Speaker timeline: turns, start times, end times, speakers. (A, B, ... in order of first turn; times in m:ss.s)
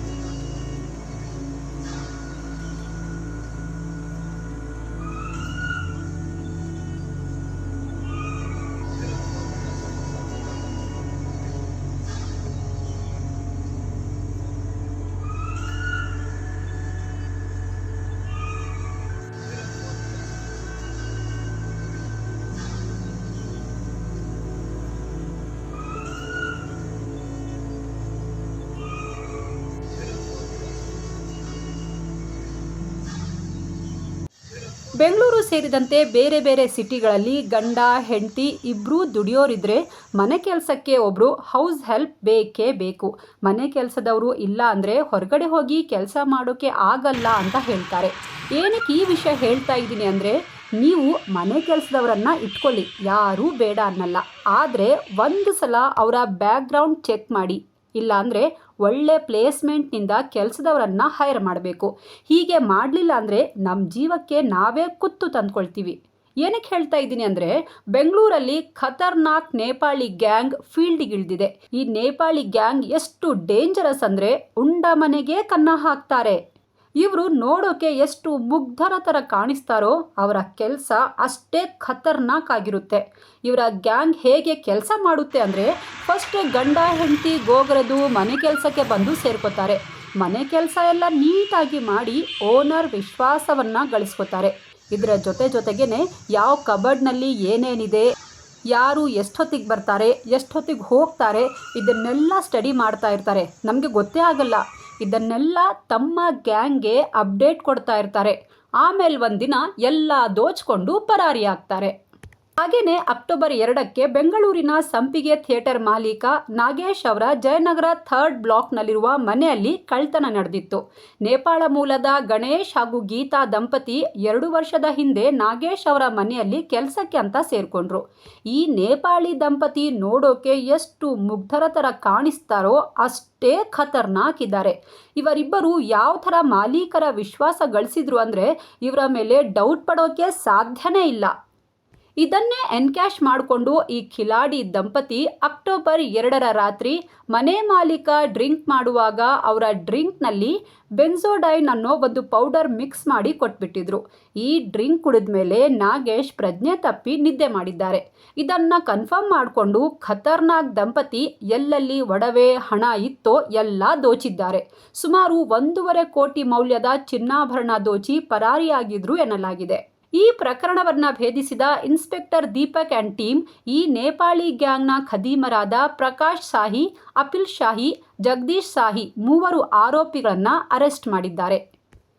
0:35.0-1:16.4 A
1:17.0-1:38.1 A
1:38.7-1:51.9 A
1:52.6-2:21.3 A
2:22.2-3:01.6 A